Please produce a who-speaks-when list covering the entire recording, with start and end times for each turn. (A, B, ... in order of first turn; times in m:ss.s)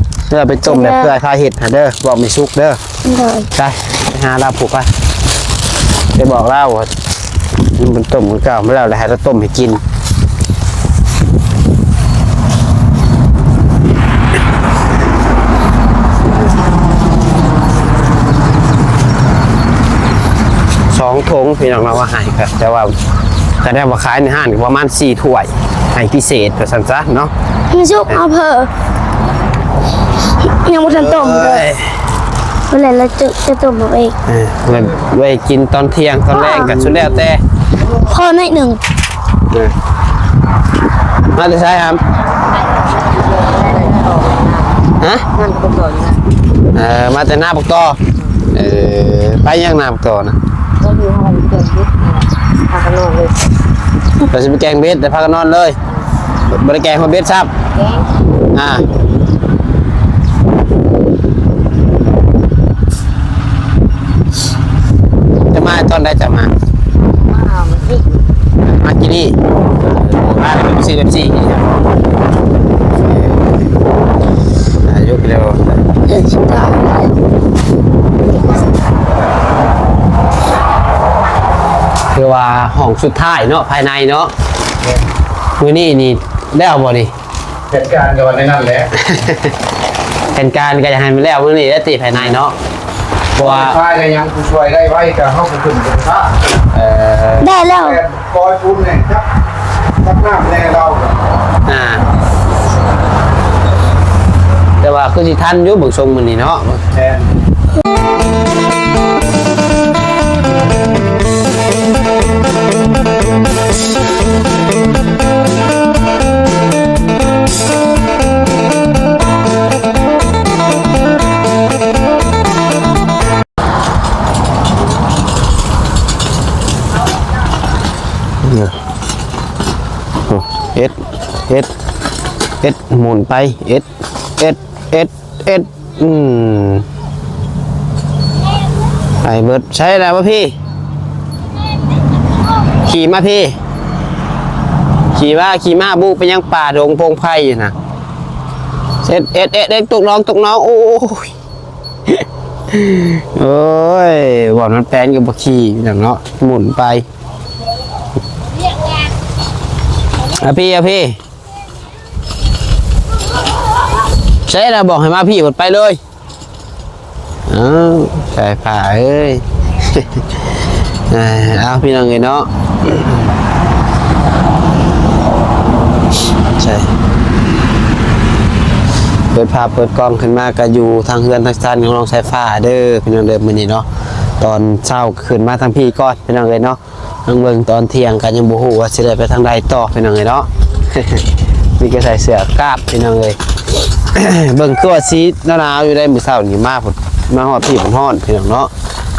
0:00.3-0:02.8 A
0:00.6-0:01.1 B
0:03.0-0:03.5 B
0:03.5-0:04.9 A
0:06.1-0:06.9 A
0:07.7-0:09.8 A
0:16.2-0:16.6 A
0:20.9-0:22.9 A
0:23.6-0:27.3 A
0:27.7-0:28.7 B
0:30.4-0:31.6 B
0:30.8-0:32.0 A
0:32.7-0:34.2 B
0:34.3-0:37.4 A
0:36.3-0:36.8 B
0:37.9-0:38.8 B
0:41.3-0:42.0 A
0:42.5-0:46.2 C
0:45.0-0:45.3 A
0:46.7-0:48.0 A
0:48.5-0:50.4 A
0:50.8-0:53.5 C
0:54.3-0:55.8 A
0:56.5-0:57.5 A
0:57.7-0:58.1 C
0:58.5-0:58.8 A
1:05.5-1:06.5 A
1:06.9-1:08.3 C
1:08.7-1:09.4 A
1:09.9-1:11.7 A
1:13.0-1:13.4 A
1:14.8-1:15.8 A
1:16.1-1:17.1 B
1:22.1-1:24.3 A
1:25.6-1:27.1 A
1:27.7-1:28.9 D
1:28.9-1:29.5 A
1:30.3-1:32.6 A
1:33.4-1:33.8 A
1:33.4-1:36.3 D
1:36.7-1:37.5 A
1:37.4-1:38.0 B
1:37.8-1:39.3 D
1:40.0-1:41.4 D
1:41.7-1:42.0 A
1:44.8-1:46.8 A
1:46.9-1:47.3 D
2:08.4-2:08.7 A
2:10.3-2:11.0 A
2:12.6-2:13.9 A
2:14.4-2:16.9 A
2:19.2-2:20.5 A
2:22.8-2:23.6 A
2:25.2-2:27.7 A
2:29.0-2:31.3 A
2:32.1-2:37.1 A
2:40.4-2:41.2 A
2:44.5-2:46.0 A
2:47.5-2:50.4 A
2:51.1-2:53.3 A
2:56.5-2:56.9 A
2:59.3-3:03.9 A
3:04.4-3:11.2 A
3:11.8-3:13.4 A
3:14.1-3:18.7 A